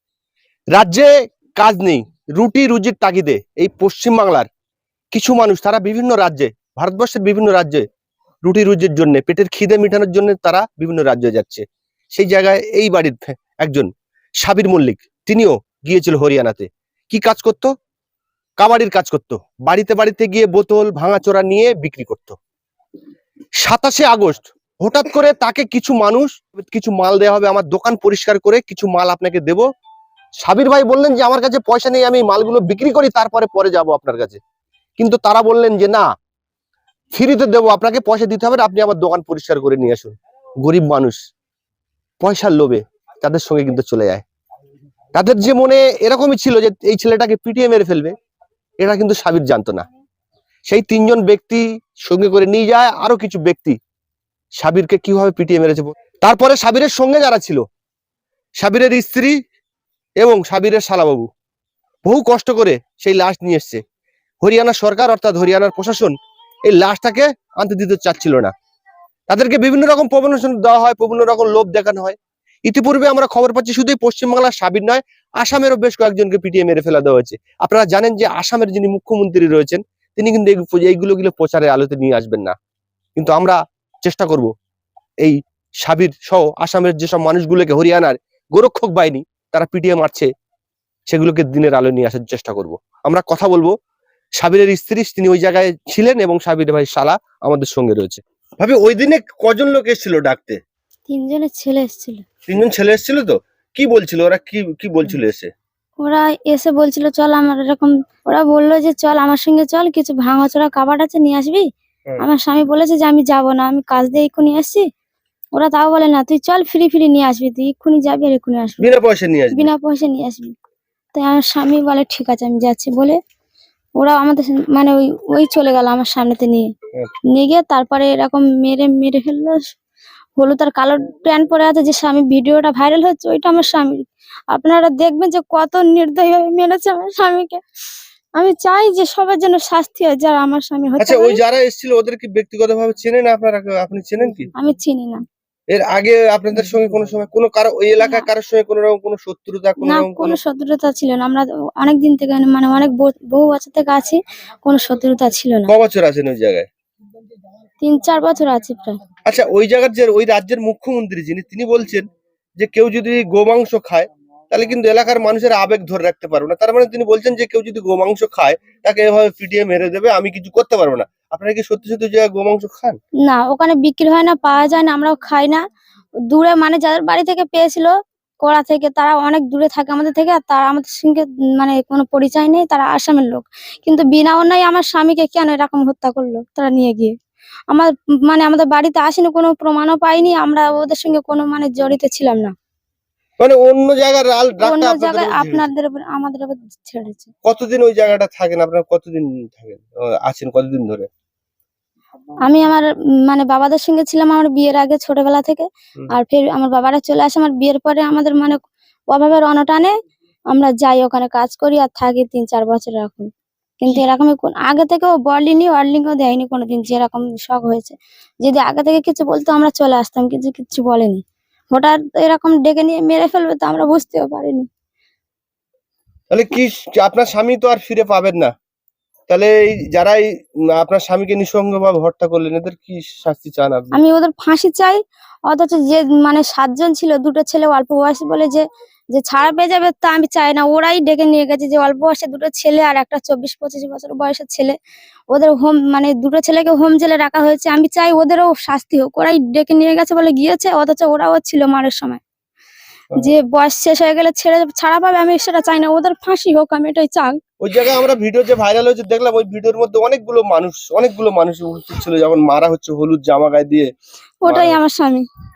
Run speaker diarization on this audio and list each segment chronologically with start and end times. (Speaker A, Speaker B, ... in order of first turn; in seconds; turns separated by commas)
Speaker A: 0.7-4.5, Speaker A: 5.1-7.8, Speaker A: 8.4-17.7, Speaker A: 18.6-22.4, Speaker A: 23.6-29.6, Speaker A: 30.4-34.4, Speaker A: 35.0-36.0, Speaker A: 37.1-41.2, Speaker A: 42.2-44.2, Speaker A: 45.1-48.1, Speaker A: 48.8-49.9, Speaker A: 50.6-53.8, Speaker A: 54.6-57.6, Speaker A: 58.6-59.4, Speaker A: 60.2-61.3, Speaker A: 62.0-63.8, Speaker A: 64.4-66.1, Speaker A: 66.7-68.5, Speaker A: 69.3-82.5, Speaker A: 83.2-84.5, Speaker A: 85.2-90.3, Speaker A: 91.1-93.7, Speaker A: 94.4-100.6, Speaker B: 101.1-102.2, Speaker A: 102.5-105.5, Speaker B: 106.0-111.7, Speaker B: 112.2-114.8, Speaker B: 115.5-118.9, Speaker A: 118.8-119.7, Speaker B: 119.5-120.5, Speaker B: 121.1-123.2, Speaker B: 124.0-126.7, Speaker B: 127.3-129.7, Speaker B: 130.4-137.6, Speaker B: 138.3-141.4, Speaker A: 141.0-144.5, Speaker B: 144.6-145.2, Speaker A: 145.7-150.4, Speaker B: 148.0-148.3, Speaker B: 149.8-155.7, Speaker A: 155.7-156.7, Speaker B: 157.8-159.0, Speaker A: 159.2-162.1, Speaker A: 162.6-173.0, Speaker B: 173.2-175.6, Speaker B: 176.3-187.1, Speaker B: 187.7-192.5, Speaker A: 193.4-195.7, Speaker B: 194.6-197.3, Speaker A: 197.4-201.1, Speaker B: 202.4-208.6, Speaker B: 209.1-209.9, Speaker B: 210.5-213.3, Speaker B: 213.8-224.7, Speaker A: 226.3-228.5, Speaker A: 229.3-234.0, Speaker B: 233.9-244.8, Speaker B: 245.3-252.2, Speaker B: 253.2-257.4, Speaker A: 257.6-263.9, Speaker B: 264.4-265.2, Speaker A: 264.5-264.8